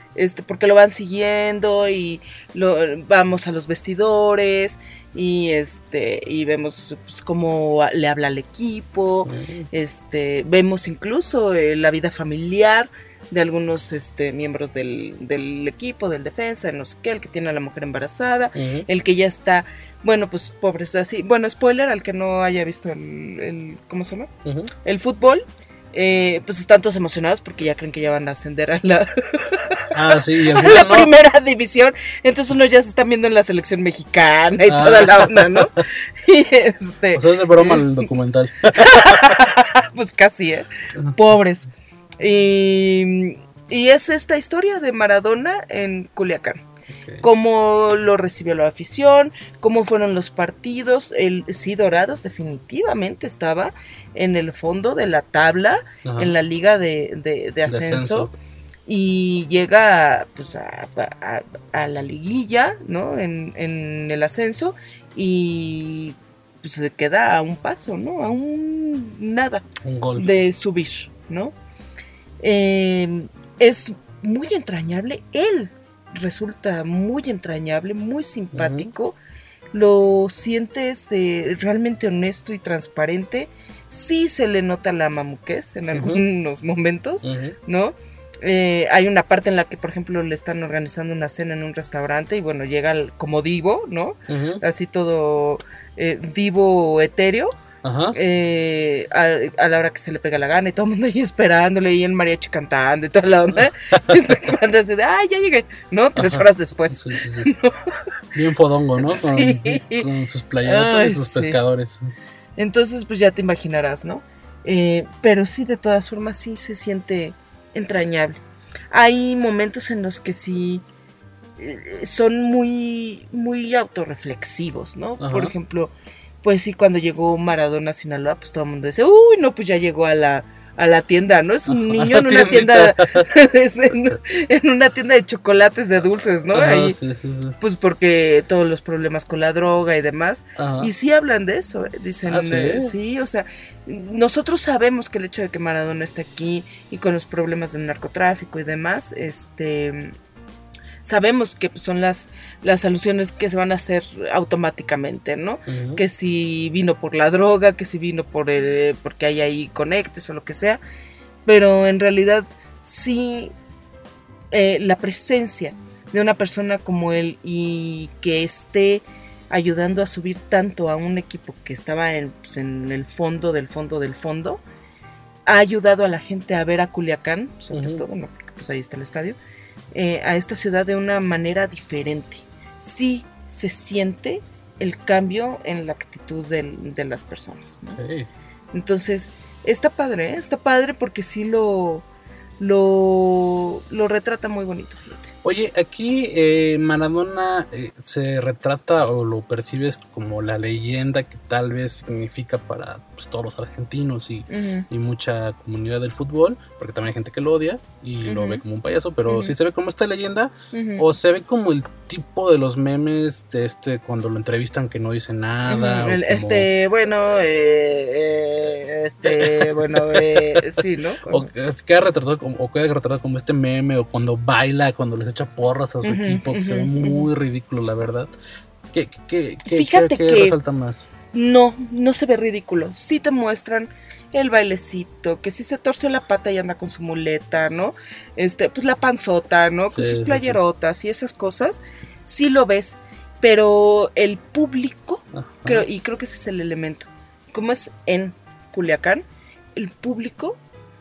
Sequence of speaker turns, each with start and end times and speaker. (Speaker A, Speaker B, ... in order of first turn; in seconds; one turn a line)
Speaker A: 0.1-24.3
Speaker B: 9.3-9.7
Speaker B: 18.6-18.9
Speaker B: 24.4-24.7
Speaker A: 24.8-37.9
Speaker B: 29.9-31.1
Speaker B: 34.7-35.8
Speaker B: 37.1-39.3
Speaker A: 38.7-46.6
Speaker B: 46.9-47.2
Speaker A: 47.2-58.3
Speaker B: 56.0-56.3
Speaker B: 57.7-58.3
Speaker A: 58.9-69.7
Speaker B: 69.8-70.4
Speaker A: 70.2-71.5
Speaker A: 72.4-79.2
Speaker B: 78.5-78.9
Speaker A: 79.7-97.5
Speaker B: 85.9-86.3
Speaker B: 87.2-87.6
Speaker B: 94.3-94.6
Speaker B: 97.8-98.2
Speaker A: 98.1-108.0
Speaker B: 103.9-104.5
Speaker B: 106.2-107.5
Speaker B: 108.3-112.1
Speaker A: 109.0-110.1
Speaker A: 110.6-111.6
Speaker A: 112.6-120.8
Speaker A: 121.6-137.0
Speaker B: 125.2-125.5
Speaker B: 131.7-133.3
Speaker B: 136.5-137.6
Speaker A: 137.6-150.2
Speaker B: 140.6-140.9
Speaker B: 142.3-142.9
Speaker A: 151.0-160.8
Speaker B: 155.7-156.0
Speaker A: 161.4-163.5
Speaker A: 164.5-174.6
Speaker A: 175.5-179.4
Speaker B: 177.7-178.0
Speaker A: 179.9-188.0
Speaker B: 188.0-188.3
Speaker A: 188.7-192.1
Speaker A: 192.6-195.3
Speaker B: 195.4-216.7
Speaker A: 204.5-204.9
Speaker A: 208.2-208.6
Speaker A: 209.3-209.6
Speaker A: 210.7-211.1
Speaker A: 215.7-221.5
Speaker B: 219.2-228.3
Speaker A: 226.0-227.3
Speaker B: 228.9-231.1
Speaker A: 229.7-230.6
Speaker A: 231.3-250.6
Speaker B: 239.9-240.6
Speaker B: 245.3-245.8